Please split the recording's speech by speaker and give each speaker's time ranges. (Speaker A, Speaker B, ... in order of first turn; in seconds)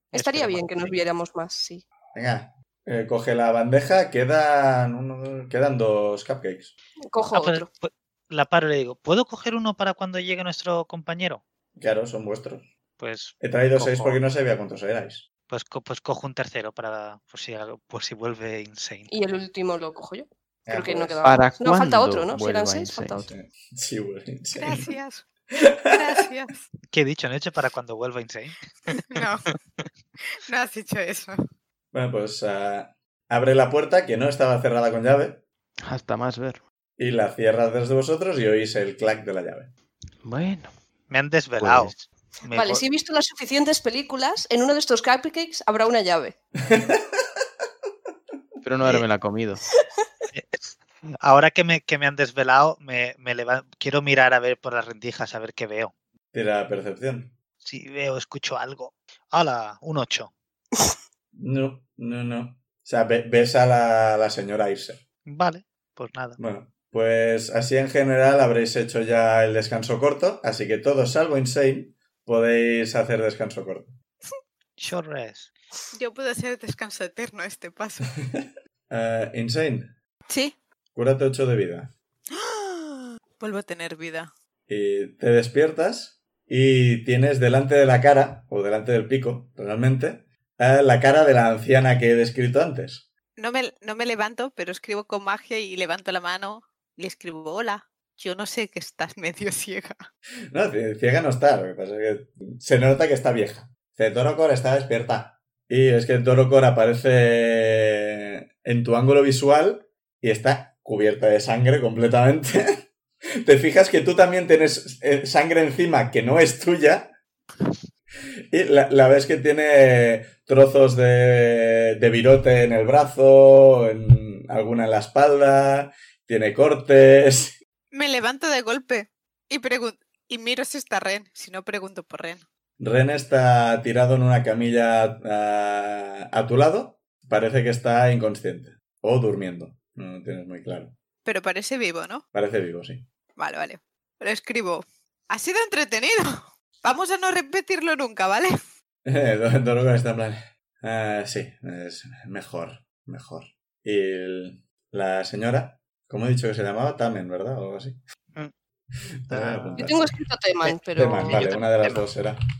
Speaker A: 0.1-1.0, 7.3-11.4, 13.0-14.2, 15.5-19.1, 26.9-29.9, 41.1-42.8, 50.3-55.9, 57.6-60.3, 65.3-66.4, 74.8-75.5, 159.3-160.0, 161.3-162.0
Speaker B: 0.1-1.8, 7.1-7.7, 19.1-23.3, 42.5-46.4, 159.8-161.7
Speaker C: 2.1-6.7, 11.8-12.7, 13.4-15.3, 20.7-21.2, 23.2-24.9, 25.6-26.0, 31.9-35.4, 37.0-39.7, 46.7-47.2, 56.3-57.4, 61.3-65.0, 66.4-74.0, 78.3-79.9, 80.9-81.9, 84.7-93.1, 100.5-112.6, 113.4-117.1, 118.5-127.6, 132.8-140.9, 142.3-143.1, 149.1-158.0, 159.3-160.0, 160.9-162.4
Speaker D: 21.2-23.3, 35.9-36.6, 40.2-40.7, 41.6-42.1, 48.6-49.6
Speaker E: 24.6-25.3, 25.9-26.6, 29.1-29.5, 30.5-31.4, 75.9-78.1, 80.3-80.5, 82.3-84.3, 93.4-100.0, 127.9-132.4, 141.2-142.2, 143.4-148.5